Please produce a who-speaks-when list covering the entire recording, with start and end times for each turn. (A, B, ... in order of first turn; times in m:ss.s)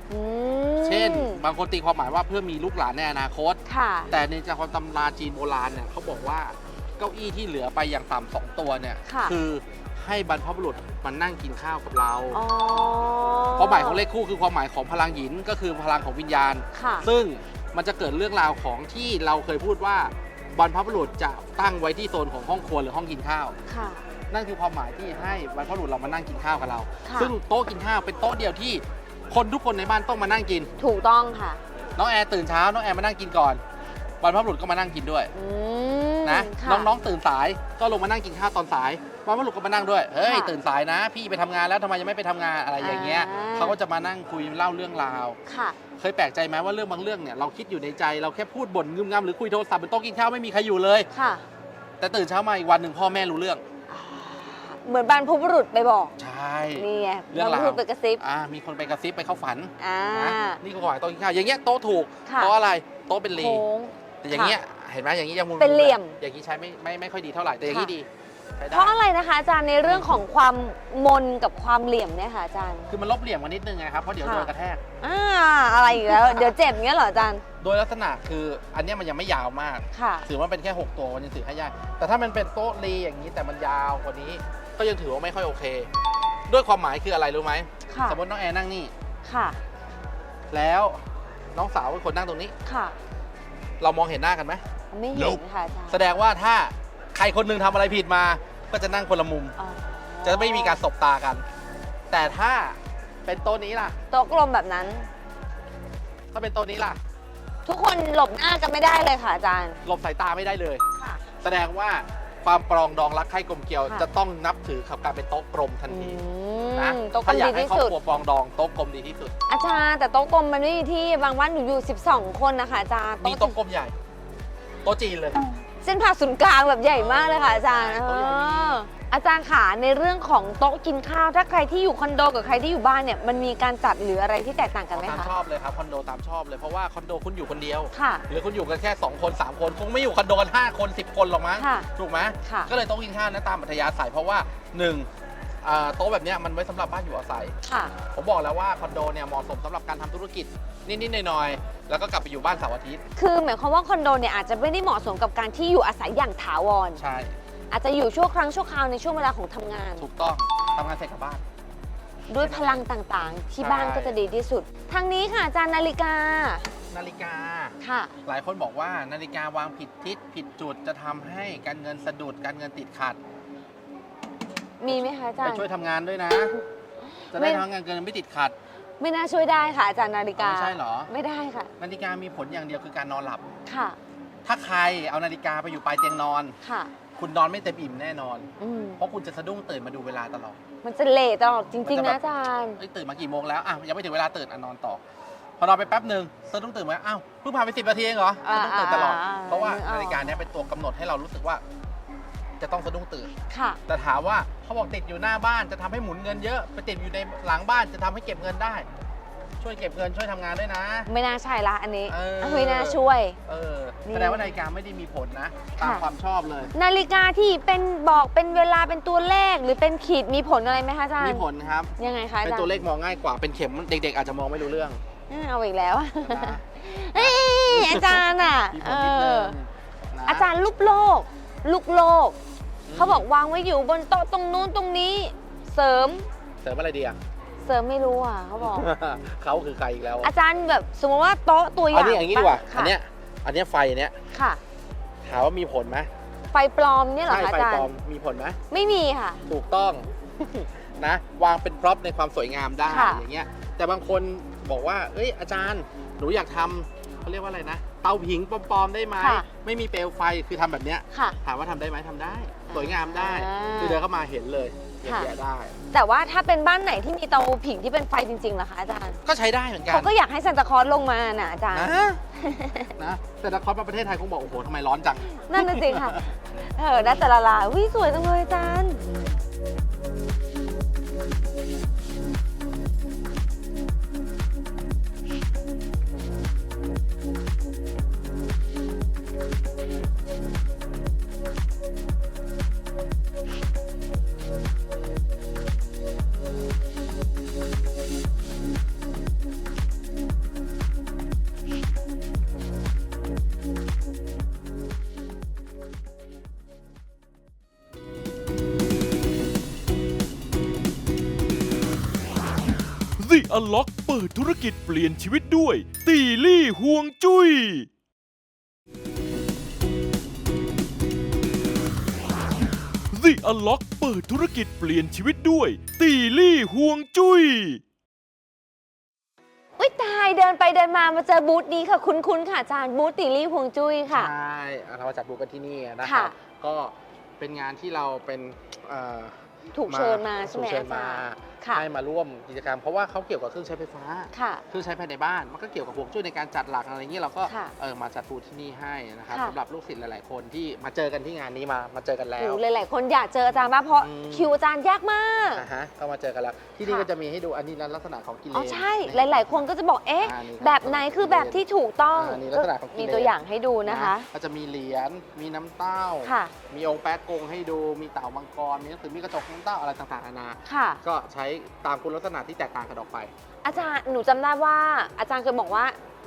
0:00.1-0:01.4 A
0:00.8-0:12.4 B
0:03.6-0:04.1 A
0:09.0-0:09.4 A
0:12.3-0:14.0 A
0:13.6-0:23.6 B
0:16.7-0:17.1 A
0:23.7-0:24.0 A
0:24.3-0:30.7 B
0:27.0-0:27.3 A
0:30.8-0:31.6 A
0:32.0-0:33.6 B
0:34.2-0:35.3 B
0:35.3-0:36.9 A
0:36.2-0:45.4 B
0:40.2-0:40.5 A
0:42.8-0:43.8 A
0:45.4-0:45.8 A
0:46.0-0:51.1 B
0:51.1-0:51.4 A
0:52.0-0:53.6 B
0:53.9-0:56.2 A
0:56.2-1:03.6 B
0:56.7-0:58.2 A
0:59.8-1:00.6 A
1:02.2-1:02.5 A
1:03.3-1:04.6 A
1:04.2-1:09.0 B
1:05.6-1:06.2 A
1:07.6-1:07.9 A
1:08.7-1:12.9 A
1:09.8-1:10.2 B
1:12.9-1:14.8 B
1:14.2-1:14.5 A
1:15.0-1:17.4 A
1:15.9-1:16.6 B
1:17.6-1:25.9 B
1:19.9-1:20.3 A
1:26.5-1:28.9 B
1:27.9-1:28.2 A
1:29.2-1:29.6 A
1:30.5-1:32.5 B
1:32.6-1:33.0 A
1:33.8-1:34.6 B
1:34.9-1:36.0 A
1:35.9-1:39.5 B
1:39.6-1:40.8 A
1:40.2-1:41.4 B
1:42.1-1:44.0 B
1:44.1-1:45.1 A
1:46.3-1:47.0 B
1:47.6-1:49.8 A
1:49.8-1:50.8 B
1:51.4-1:56.2 B
1:55.9-1:57.9 A
1:56.7-1:59.3 B
1:59.5-2:03.6 A
2:03.2-2:03.9 B
2:04.8-2:05.5 B
2:05.8-2:15.3 A
2:06.9-2:08.8 B
2:14.9-2:25.1 B
2:17.9-2:18.2 A
2:21.6-2:21.9 A
2:22.4-2:22.7 A
2:25.6-2:27.5 B
2:27.6-2:27.9 A
2:28.1-2:33.0 B
2:33.2-2:37.0 A
2:37.0-2:37.4 B
2:37.7-2:40.1 A
2:40.0-2:41.4 B
2:42.3-2:46.6 A
2:42.4-2:42.8 B
2:43.6-2:44.2 B
2:46.9-2:53.2 B
2:47.8-2:48.1 A
2:54.8-2:55.7 A
2:54.9-2:56.5 B
2:57.3-2:57.6 A
2:57.3-2:58.5 B
2:59.0-3:01.7 A
3:00.4-3:01.1 B
3:01.8-3:03.4 B
3:03.6-3:04.0 A
3:04.4-3:06.6 B
3:06.6-3:06.9 A
3:07.2-3:10.6 B
3:08.6-3:09.0 A
3:10.8-3:12.8 A
3:11.8-3:15.0 B
3:15.6-3:21.6 B
3:18.4-3:20.3 A
3:22.6-3:23.3 B
3:23.5-3:23.8 A
3:23.9-3:28.9 B
3:29.6-3:31.1 B
3:31.1-3:33.4 A
3:32.1-3:36.7 B
3:34.0-3:34.5 A
3:35.8-3:36.0 A
3:36.7-3:41.4 A
3:41.2-3:45.0 B
3:42.0-3:42.7 A
3:45.3-3:49.5 A
3:46.2-3:46.6 B
3:47.1-3:50.5 B
3:50.2-3:52.4 A
3:52.8-3:53.3 B
3:52.9-3:56.3 A
3:56.6-3:57.2 B
3:57.6-3:58.9 A
3:58.6-4:00.3 B
4:00.2-4:02.9 A
4:01.9-4:04.2 B
4:04.3-4:04.6 A
4:05.2-4:06.1 B
4:06.5-4:07.9 A
4:07.2-4:08.6 B
4:08.7-4:09.4 A
4:09.5-4:25.7 B
4:12.9-4:13.2 A
4:19.2-4:19.5 A
4:21.1-4:21.4 A
4:22.7-4:24.0 A
4:25.0-4:25.3 A
4:25.9-4:29.2 A
4:29.2-4:30.2 B
4:29.9-4:32.9 A
4:31.7-4:32.2 B
4:33.0-4:36.2 B
4:35.5-4:39.1 A
5:13.2-5:17.9 C
5:23.1-5:27.8 C
5:29.8-5:34.3 A
5:34.1-5:52.6 B
5:36.0-5:36.3 A
5:39.7-5:41.8 A
5:44.3-5:44.6 A
5:47.4-5:47.7 A
5:49.3-5:49.6 A
5:52.4-5:55.6 A
5:54.0-5:54.5 B
5:55.5-5:59.7 B
5:58.5-6:04.3 A
6:00.2-6:13.8 B
6:06.2-6:06.5 A
6:10.6-6:11.0 A
6:13.6-6:16.0 A